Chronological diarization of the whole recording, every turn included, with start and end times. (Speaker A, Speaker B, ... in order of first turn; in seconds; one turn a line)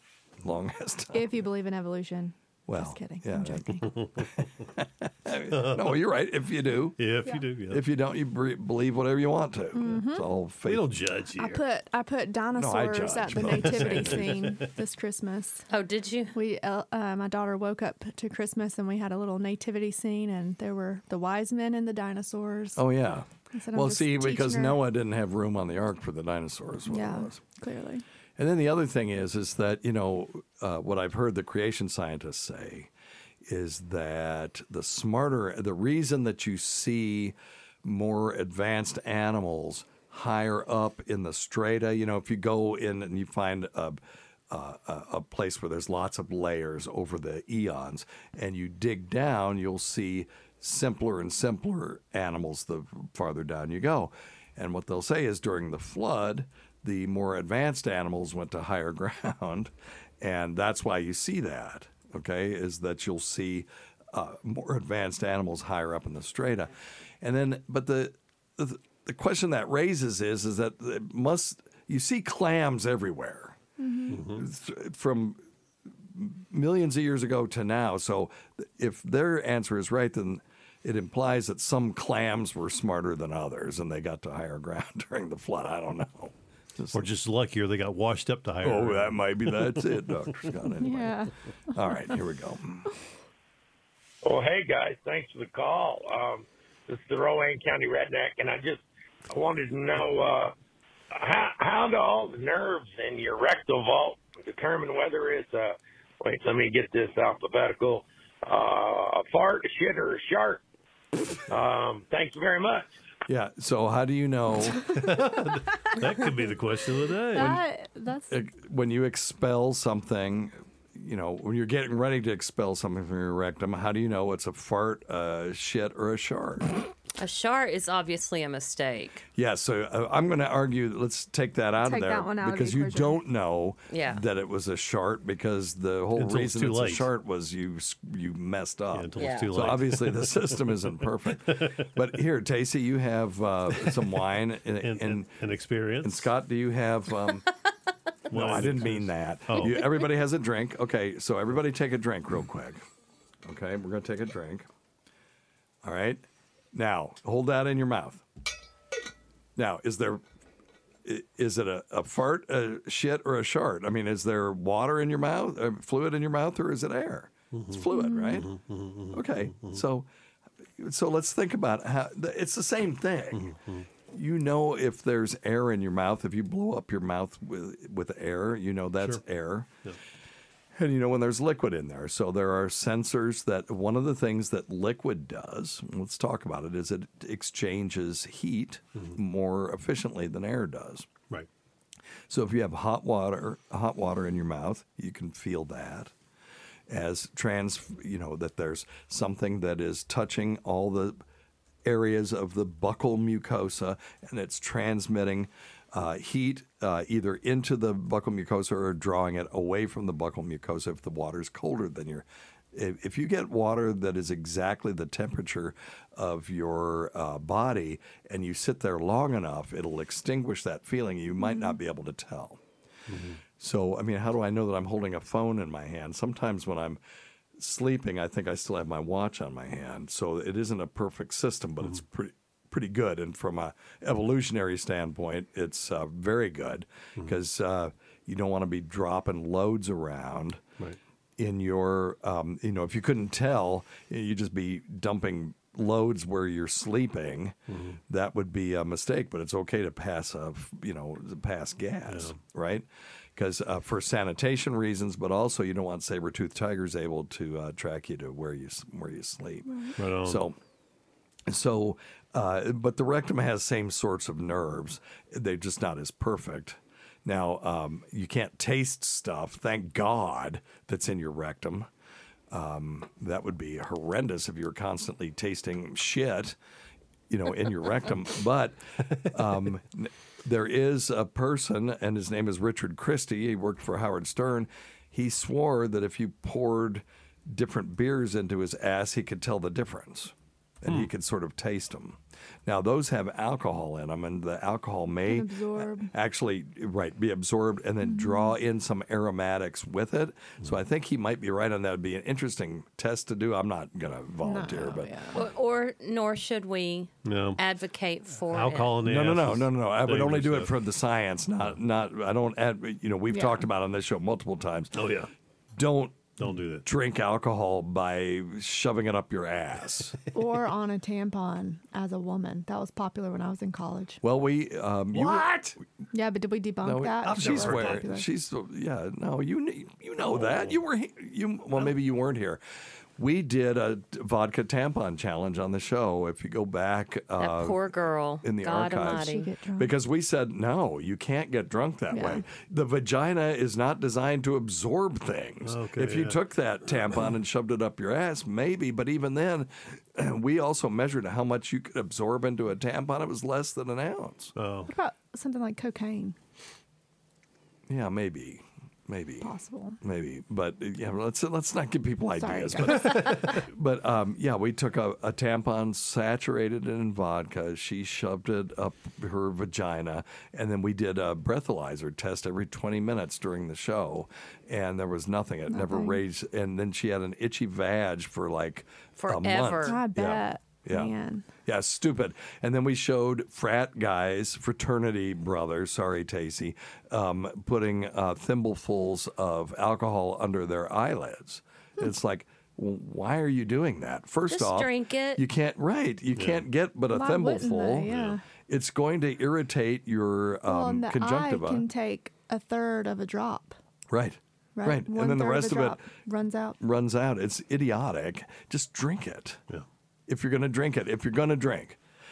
Speaker A: 0.4-1.3
Speaker B: 1.1-3.9
Speaker A: 2.7-7.0
Speaker C: 3.9-4.4
Speaker C: 5.5-6.0
Speaker C: 7.0-7.8
Speaker A: 7.7-11.0
Speaker B: 9.7-10.3
Speaker C: 10.7-11.7
Speaker B: 11.4-15.7
Speaker A: 12.6-14.4
Speaker C: 13.4-14.7
Speaker D: 15.7-16.4
Speaker B: 16.3-22.8
Speaker A: 22.8-27.4
Speaker B: 23.5-24.8
Speaker B: 26.9-28.0
Speaker A: 28.4-32.9
Speaker A: 33.4-73.6
Speaker B: 73.8-74.2
Speaker C: 74.1-74.5
Speaker A: 74.2-75.4
Speaker A: 76.0-87.1
Speaker C: 86.9-90.1
Speaker A: 88.6-92.9
Speaker B: 90.8-91.3
Speaker E: 94.2-100.5
Speaker E: 101.1-110.6
Speaker E: 111.5-112.9
Speaker A: 113.3-114.8
Speaker C: 114.9-117.6
Speaker B: 117.3-118.3
Speaker A: 117.3-117.6
Speaker A: 118.3-126.7
Speaker D: 127.2-129.3
Speaker A: 129.4-145.4
Speaker B: 131.8-133.2
Speaker D: 133.9-134.2
Speaker C: 136.2-137.1
Speaker C: 138.9-141.9
Speaker D: 139.2-139.7
Speaker C: 143.8-144.2
Speaker C: 144.8-146.3
Speaker A: 146.0-147.5
Speaker C: 148.3-149.9
Speaker A: 148.3-152.8
Speaker A: 153.4-154.7
Speaker A: 155.8-158.2
Speaker A: 159.6-160.2
Speaker A: 161.1-168.6
Speaker C: 167.5-169.8
Speaker B: 167.9-168.5
Speaker A: 169.1-170.1
Speaker A: 170.8-173.5
Speaker C: 173.3-173.9
Speaker A: 174.1-179.7
Speaker A: 180.7-191.1
Speaker A: 192.3-196.1
Speaker A: 196.9-201.2
Speaker A: 201.8-222.6
Speaker B: 221.4-221.8
Speaker C: 223.1-223.4
Speaker A: 223.6-227.0
Speaker A: 227.6-240.6
Speaker A: 241.4-247.6
Speaker C: 247.7-248.0
Speaker A: 248.1-260.6
Speaker C: 252.1-252.4
Speaker B: 259.7-259.9
Speaker C: 260.0-260.4
Speaker A: 261.5-271.9
Speaker A: 272.5-276.6
Speaker A: 277.3-305.4
Speaker B: 295.3-296.1
Speaker B: 298.0-298.6
Speaker B: 304.4-305.4
Speaker D: 305.4-309.0
Speaker C: 307.2-307.6
Speaker C: 308.5-310.7
Speaker A: 309.0-315.1
Speaker B: 313.3-313.6
Speaker C: 314.9-315.3
Speaker A: 315.8-320.1
Speaker C: 316.4-316.9
Speaker B: 320.3-324.2
Speaker A: 324.2-325.6
Speaker C: 325.1-325.7
Speaker B: 326.1-328.3
Speaker A: 326.8-332.6
Speaker C: 327.2-328.0
Speaker C: 330.3-330.8
Speaker A: 333.2-337.9
Speaker D: 337.4-339.5
Speaker A: 338.4-354.5
Speaker B: 339.1-339.9
Speaker B: 342.1-342.4
Speaker C: 345.6-346.4
Speaker C: 354.6-354.9
Speaker B: 354.9-356.4
Speaker A: 357.9-359.5
Speaker B: 359.4-360.0
Speaker A: 360.0-398.1
Speaker B: 362.4-363.3
Speaker C: 362.9-363.6
Speaker B: 375.7-376.2
Speaker D: 379.2-380.0
Speaker B: 379.9-381.5
Speaker D: 394.5-395.4
Speaker C: 396.4-396.6
Speaker B: 397.1-398.4
Speaker C: 398.1-398.4
Speaker A: 398.7-401.9
Speaker B: 400.7-403.8
Speaker A: 404.1-406.0
Speaker B: 404.8-406.8
Speaker A: 406.8-409.6
Speaker A: 410.3-412.0